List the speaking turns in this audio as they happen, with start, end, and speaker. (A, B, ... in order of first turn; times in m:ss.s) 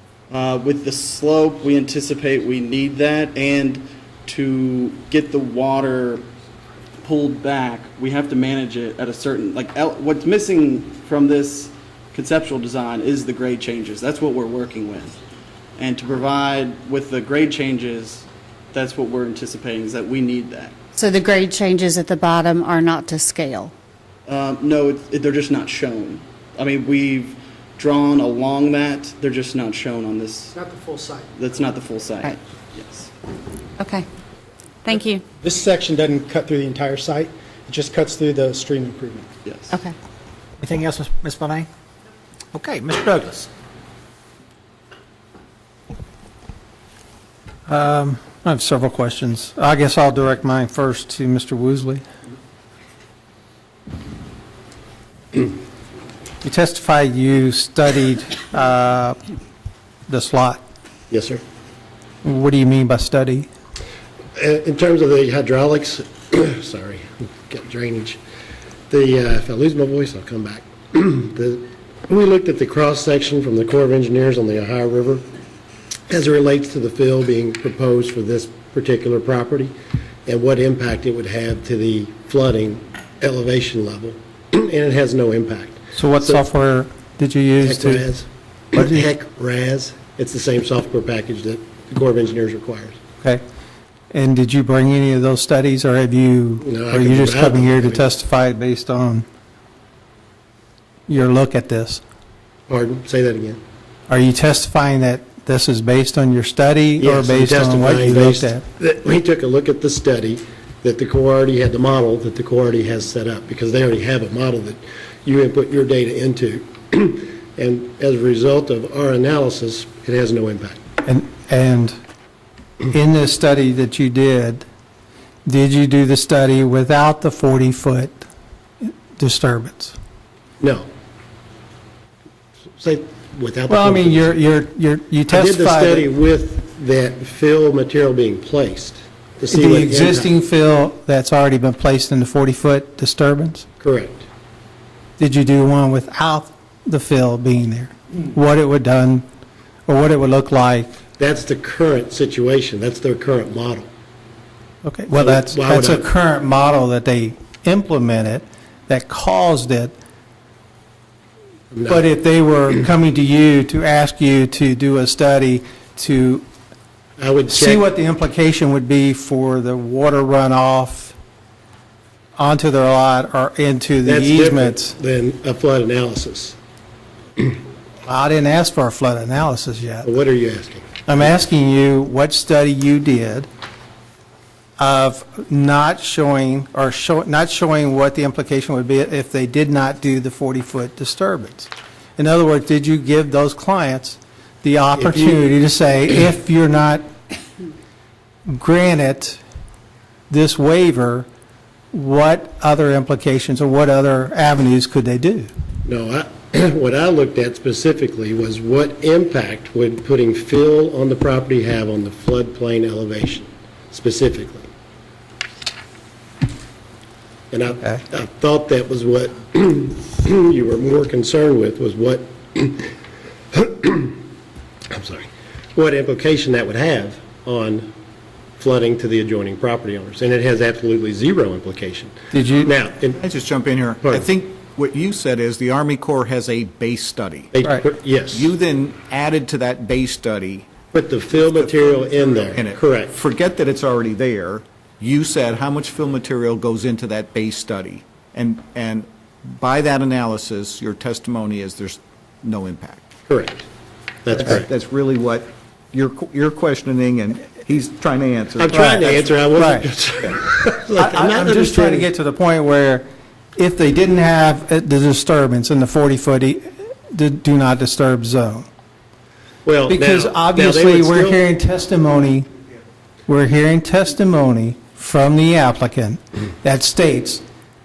0:00.3-0:06.2 A
0:07.0-0:15.2 A
0:15.8-0:20.7 A
0:20.9-0:23.7 B
0:24.3-0:30.5 A
0:30.5-0:31.3 C
0:31.3-0:33.1 A
0:33.8-0:34.0 B
0:34.8-0:35.3 B
0:35.4-0:39.3 C
0:39.4-0:39.8 A
0:39.7-0:40.0 B
0:40.8-0:41.6 D
0:42.7-0:43.4 D
0:47.7-0:52.0 E
0:56.4-0:59.2 E
1:00.1-1:00.6 E
1:01.1-1:01.4 F
1:02.2-1:03.5 E
1:04.4-1:08.2 F
1:08.9-1:15.2 F
1:16.1-1:19.7 F
1:20.3-1:26.4 F
1:25.9-1:28.0 E
1:27.6-1:33.0 F
1:28.8-1:29.0 E
1:34.1-1:39.2 E
1:36.6-1:38.0 F
1:41.1-1:42.0 E
1:42.7-1:43.6 F
1:44.1-1:48.6 E
1:47.0-2:00.8 F
2:01.0-2:01.9 E
2:02.9-2:04.6 E
2:05.4-2:08.2 E
2:09.2-2:09.9 E
2:10.6-2:10.8 F
2:12.8-2:14.4 F
2:13.7-2:16.1 E
2:15.3-2:20.3 F
2:19.5-2:23.6 E
2:23.8-2:24.2 F
2:25.2-2:29.2 E
2:29.9-2:31.0 E
2:31.2-2:33.9 F
2:34.8-2:39.9 E
2:35.1-2:36.1 F
2:41.7-2:42.0 F
2:41.9-2:46.4 E
2:47.2-2:47.8 F
2:47.5-2:51.1 E
2:52.4-2:54.9 E
2:54.0-2:56.6 F
2:58.0-3:00.1 E
3:00.0-3:00.9 F
3:01.0-3:03.5 E
3:04.8-3:17.0 E
3:15.0-3:15.4 F
3:18.5-3:19.4 E
3:20.3-3:21.3 E
3:21.9-3:25.5 E
3:25.8-3:34.6 F
3:37.5-3:42.9 F
3:43.5-3:44.2 F
3:44.9-3:47.9 F
3:48.6-3:53.2 F
3:52.3-3:52.7 E
3:53.2-3:57.5 D
3:54.0-3:54.3 F
3:57.5-3:58.5 F
3:58.3-4:00.7 D
4:00.9-4:03.2 F
4:01.4-4:13.0 D
4:13.3-4:13.6 F
4:14.2-4:14.7 F
4:14.4-4:19.3 D
4:18.5-4:22.1 F
4:18.7-4:19.8 E
4:21.0-4:23.0 E
4:23.6-4:28.7 E
4:29.6-4:31.4 F
4:29.9-4:32.4 E
4:33.3-4:37.4 E